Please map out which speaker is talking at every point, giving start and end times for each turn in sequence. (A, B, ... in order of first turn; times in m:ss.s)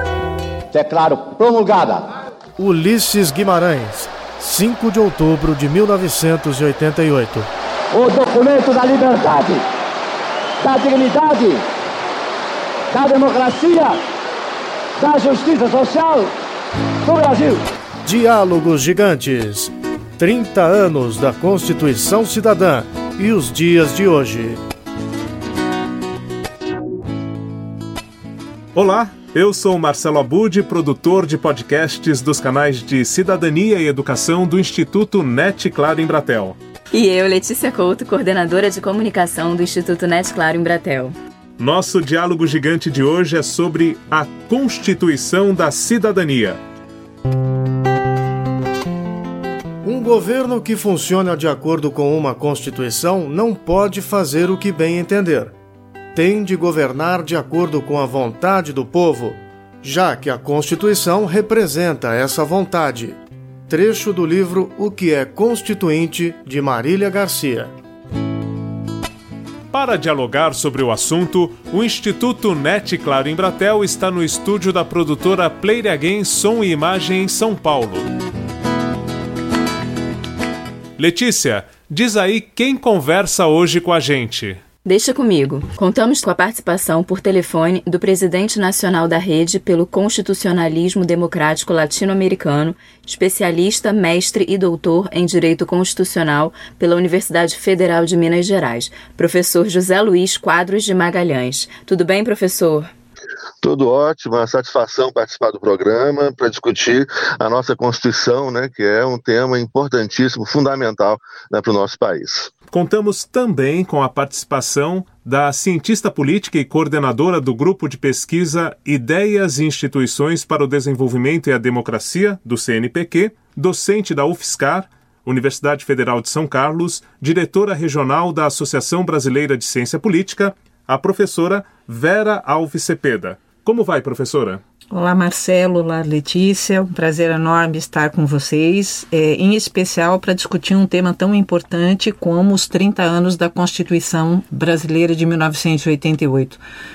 0:00.7-0:02.0 A
0:02.6-0:07.5 B
0:07.9-0:09.6 A
0:10.6-0:11.6 A
0:12.9-0:14.0 A
0:15.0-0:16.3 A
0:17.0-0:17.6 A
0:18.0-0:24.6 B
0:28.7-0:36.6 C
0:36.9-0:41.1 D
0:41.6-0:46.6 C
0:49.8-0:55.5 B
0:56.1-1:07.7 B
1:09.7-1:18.1 C
1:21.0-1:24.6 C
1:24.8-1:42.9 D
1:43.6-1:52.5 E
1:52.7-2:14.6 C
2:14.9-2:26.6 F